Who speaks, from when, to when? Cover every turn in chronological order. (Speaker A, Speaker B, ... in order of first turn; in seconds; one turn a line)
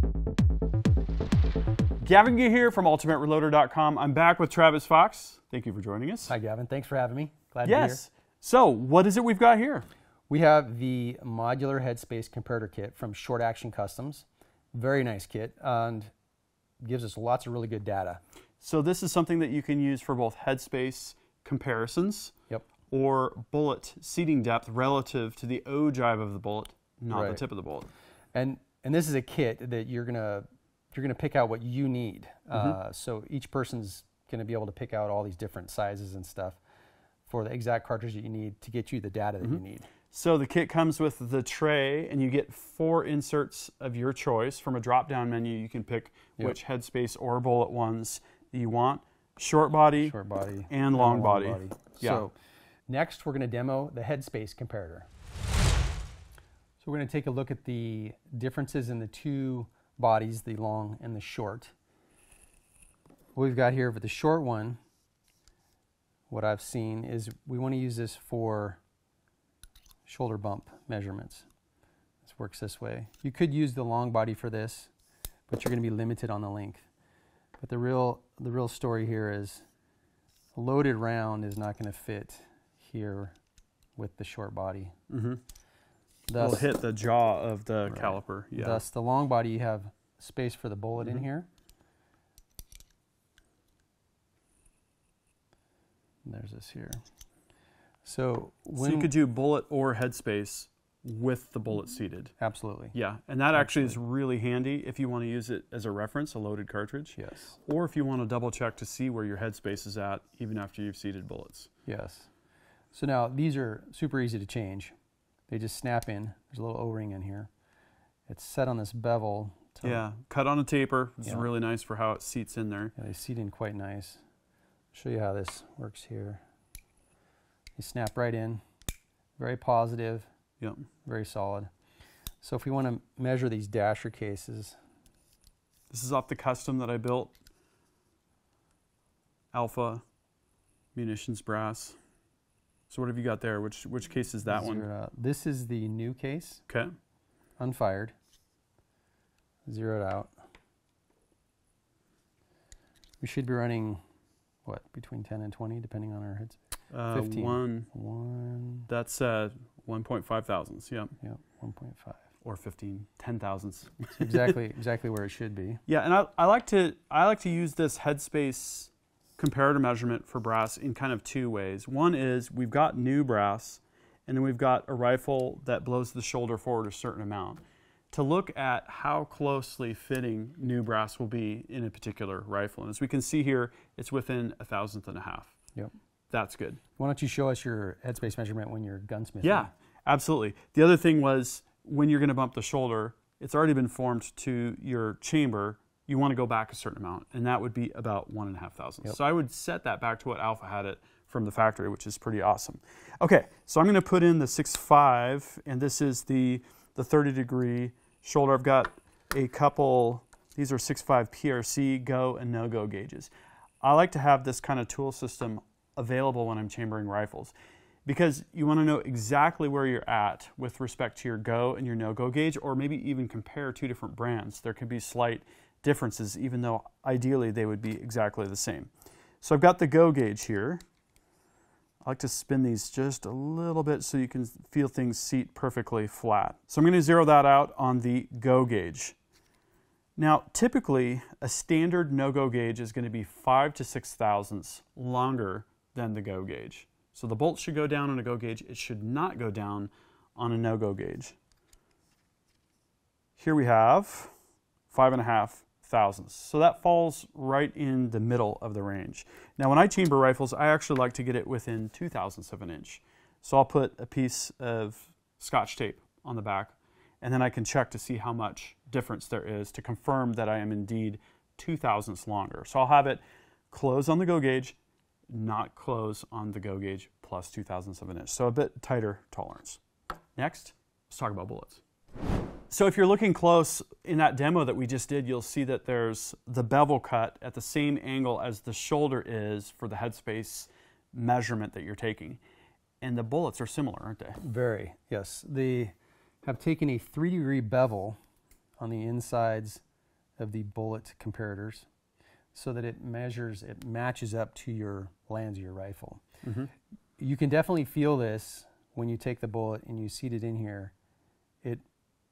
Speaker A: 2.0-6.3
Speaker B: 6.3-8.0
Speaker A: 7.7-9.9
Speaker B: 10.3-16.1
Speaker B: 16.8-18.2
Speaker A: 18.6-22.3
Speaker A: 22.9-27.9
Speaker B: 27.1-27.4
Speaker B: 28.3-36.6
Speaker A: 32.5-32.8
Speaker B: 37.3-39.9
Speaker A: 39.4-50.1
Speaker B: 50.0-52.4
Speaker A: 50.7-52.3
Speaker B: 52.9-55.1
Speaker B: 56.8-61.7
Speaker B: 63.4-64.8
Speaker B: 66.3-68.8
Speaker B: 70.1-71.5
Speaker B: 72.2-74.9
Speaker B: 75.5-76.9
Speaker B: 77.6-79.7
Speaker B: 80.5-83.4
Speaker B: 84.0-85.0
Speaker A: 85.1-85.4
Speaker B: 86.3-86.7
Speaker A: 86.4-88.8
Speaker B: 87.9-91.5
Speaker B: 96.2-97.0
Speaker B: 98.0-99.1
Speaker A: 98.8-102.3
Speaker B: 102.4-103.0
Speaker A: 102.9-111.7
Speaker B: 103.6-104.0
Speaker B: 107.2-107.6
Speaker B: 111.9-112.3
Speaker B: 112.9-114.9
Speaker B: 115.5-117.5
Speaker B: 118.3-120.0
Speaker A: 119.8-122.9
Speaker B: 123.0-124.2
Speaker B: 124.9-126.4
Speaker B: 127.8-128.6
Speaker B: 129.4-130.3
Speaker B: 131.1-131.7
Speaker B: 132.4-134.8
Speaker A: 135.9-137.3
Speaker A: 139.5-140.0
Speaker A: 140.9-142.0
Speaker A: 142.9-144.9
Speaker B: 144.5-146.6
Speaker B: 147.6-148.2
Speaker B: 149.7-150.3
Speaker B: 153.2-154.0
Speaker B: 154.7-158.9
Speaker A: 156.9-157.9
Speaker A: 158.9-161.1
Speaker B: 161.2-162.2
Speaker A: 162.4-164.5
Speaker B: 164.2-165.8
Speaker A: 165.9-185.5
Speaker A: 186.3-186.8
Speaker B: 187.0-189.7
Speaker A: 189.4-213.3
Speaker A: 213.8-217.5
Speaker A: 218.1-228.9
Speaker A: 229.4-230.8
Speaker A: 232.1-239.2
Speaker A: 240.2-251.4
Speaker A: 253.4-254.3
Speaker A: 254.9-274.8
Speaker A: 275.3-279.8
Speaker A: 280.4-281.8
Speaker A: 282.7-292.4
Speaker A: 293.0-294.4
Speaker B: 294.4-298.2
Speaker B: 298.8-299.8
Speaker B: 300.4-301.9
Speaker B: 302.5-306.2
Speaker A: 306.4-306.7
Speaker B: 307.2-310.9